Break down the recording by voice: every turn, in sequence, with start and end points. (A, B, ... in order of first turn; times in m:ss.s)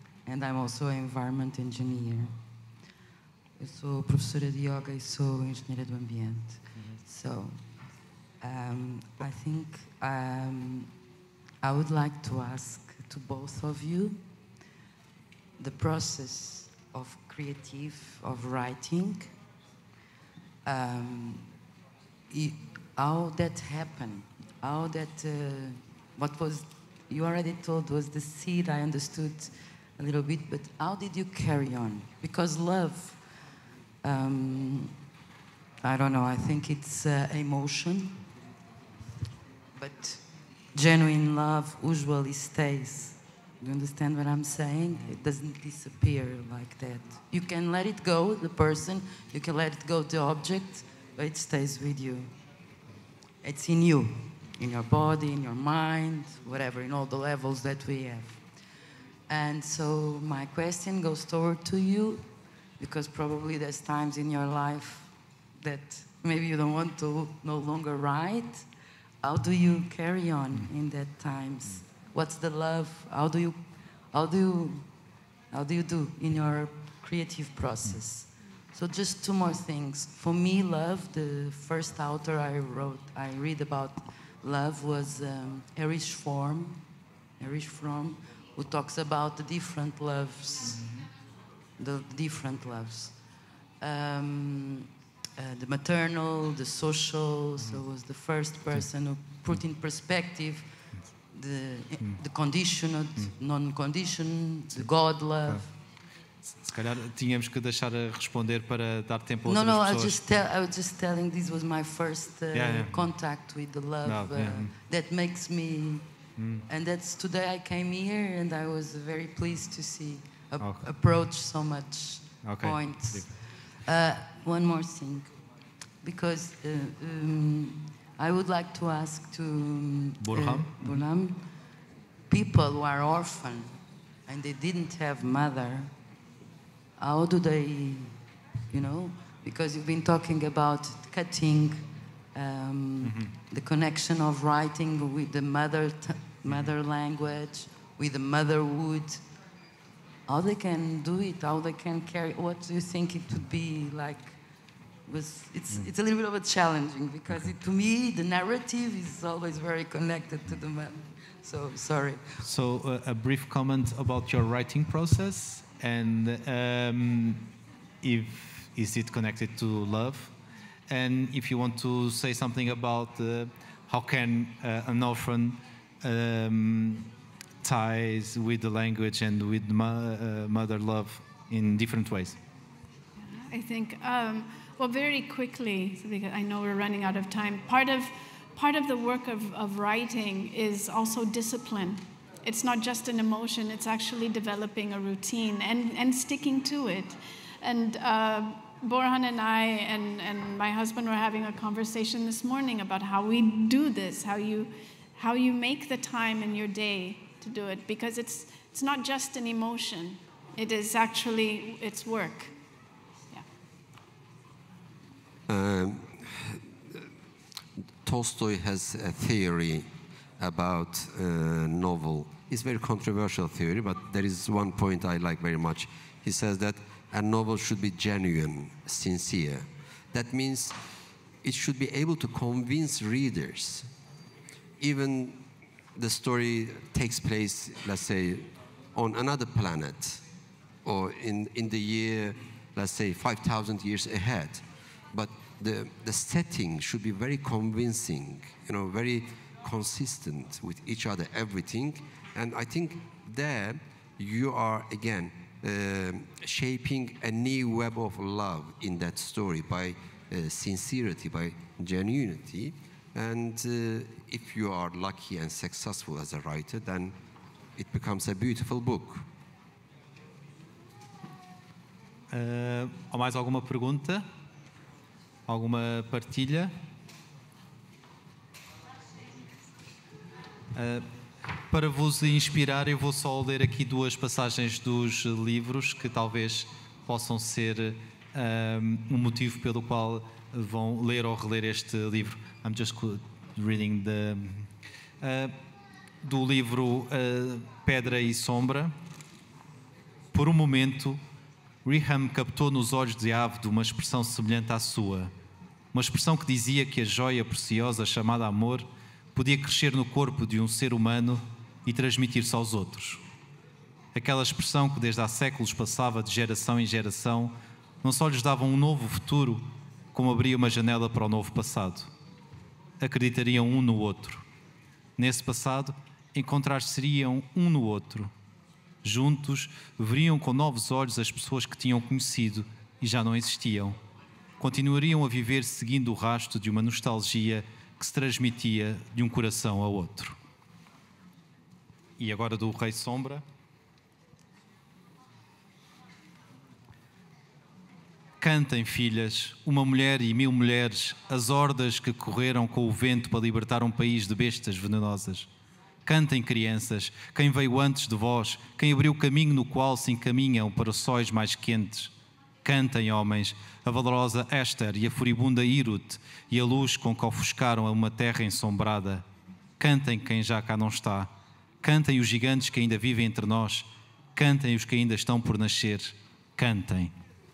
0:00.2-0:02.4 A
0:03.6-0:10.9 A
0:06.7-0:07.0 B
0:11.6-0:14.2 A
0:15.6-0:19.3 A
0:20.6-0:21.5 A
0:22.3-0:33.4 A
0:34.0-0:34.9 A
0:35.8-0:38.2 A
0:39.8-0:52.3 A
0:53.4-0:58.6 A
0:59.3-1:08.7 A
1:09.2-1:14.9 A
1:15.5-1:26.8 A
1:27.4-1:30.9 A
1:30.8-1:31.0 B
1:31.8-1:33.2 A
1:33.8-1:45.7 A
1:46.4-1:50.2 B
1:49.4-1:56.0 A
1:52.5-1:53.0 B
1:54.0-1:54.7 B
1:56.4-1:56.6 B
1:56.7-2:05.4 A
2:00.6-2:00.9 B
2:02.4-2:03.3 B
2:06.0-2:11.6 A
2:10.2-2:11.0 B
2:12.3-2:15.9 A
2:17.0-2:18.2 A
2:18.7-2:29.2 A
2:23.0-2:23.3 B
2:30.3-2:34.4 A
2:35.1-2:42.4 A
2:42.4-2:47.5 B
2:48.0-2:50.3 B
2:50.9-2:57.1 B
2:57.6-3:02.4 B
3:03.2-3:32.5 C
3:35.5-3:37.1 D
3:38.0-3:50.8 D
3:51.4-3:53.9 D
3:54.8-3:55.4 D
3:56.0-4:00.2 D
4:00.8-4:27.1 D
4:27.8-4:29.2 D
4:32.3-4:34.2 B
4:35.5-4:36.7 B
4:40.7-4:41.0 B
4:41.6-4:55.5 B
4:56.2-4:58.9 B
5:00.3-5:01.2 B
5:01.8-5:05.3 B
5:05.9-5:13.2 B
5:14.1-5:22.1 B
5:23.0-5:24.4 B
5:25.2-5:28.3 B
5:29.0-5:34.0 B
5:34.6-5:40.4 B
5:42.2-5:43.4 B
5:48.4-5:55.5 B
5:56.0-6:09.2 B
6:09.8-6:17.1 B